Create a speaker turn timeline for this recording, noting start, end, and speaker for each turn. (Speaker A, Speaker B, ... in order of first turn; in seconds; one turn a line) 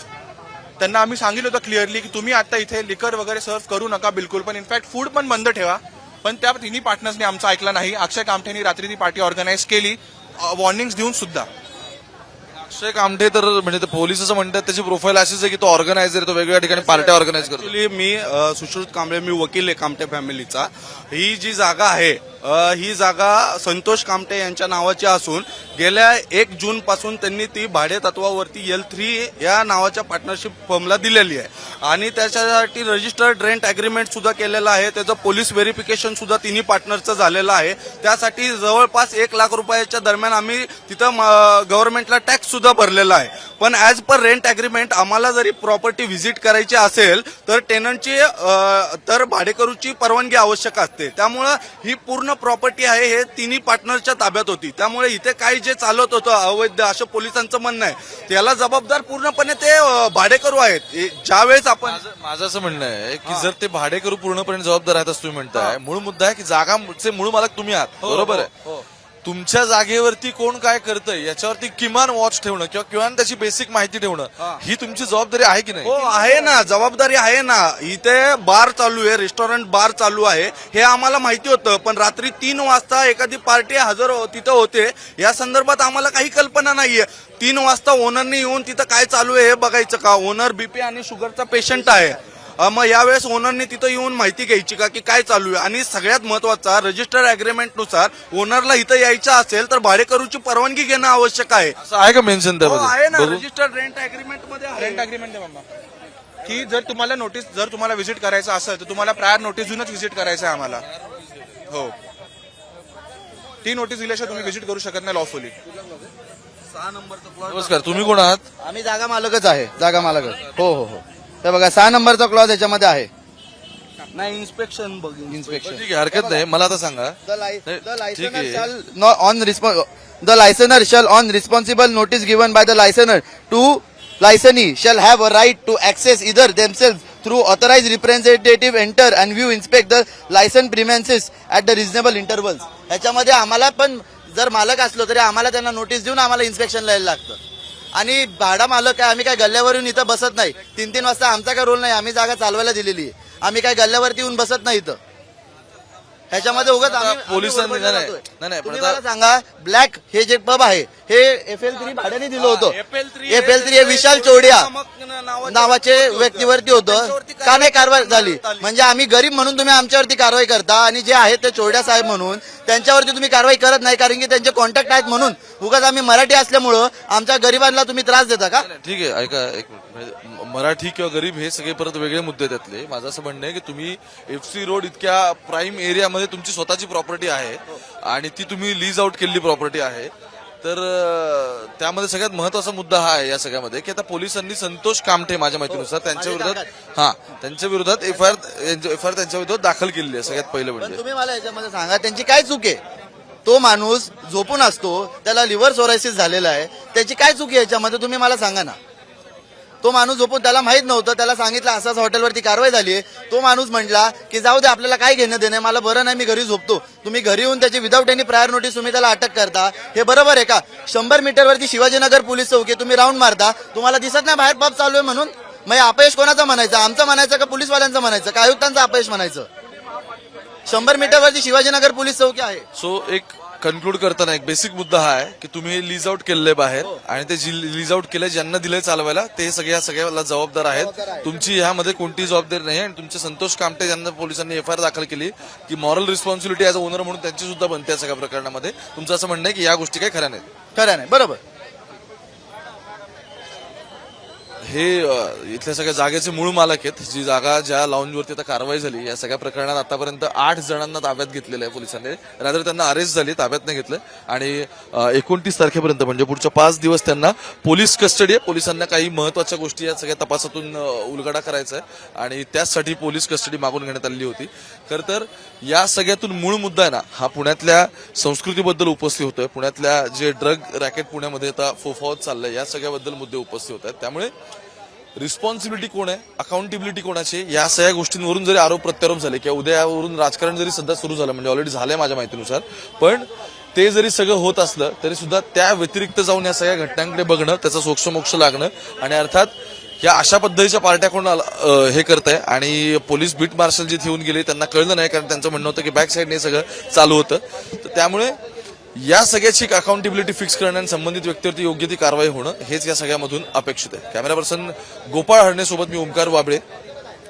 Speaker A: 0.8-11.5
Speaker B: 12.6-17.6
Speaker C: 16.7-62.0
Speaker B: 61.9-68.4
Speaker C: 65.5-65.8
Speaker C: 68.0-68.8
Speaker B: 69.2-75.9
Speaker C: 75.8-101.7
Speaker B: 101.8-102.8
Speaker C: 102.6-105.1
Speaker A: 104.7-105.7
Speaker A: 106.4-110.8
Speaker A: 111.7-111.9
Speaker A: 113.6-115.5
Speaker C: 116.7-118.3
Speaker B: 117.5-118.4
Speaker D: 118.6-123.1
Speaker C: 124.1-125.8
Speaker D: 125.3-126.4
Speaker B: 125.8-128.7
Speaker D: 127.2-147.4
Speaker D: 147.9-155.0
Speaker D: 156.3-164.7
Speaker B: 156.8-159.0
Speaker C: 162.4-168.7
Speaker D: 165.4-178.7
Speaker B: 178.6-201.0
Speaker D: 195.7-196.7
Speaker D: 200.8-202.8
Speaker D: 203.4-208.8
Speaker D: 209.8-229.5
Speaker D: 230.7-232.7
Speaker B: 232.7-250.4
Speaker D: 240.7-241.3
Speaker D: 250.7-251.4
Speaker B: 254.6-284.3
Speaker B: 285.1-308.4
Speaker B: 308.9-316.6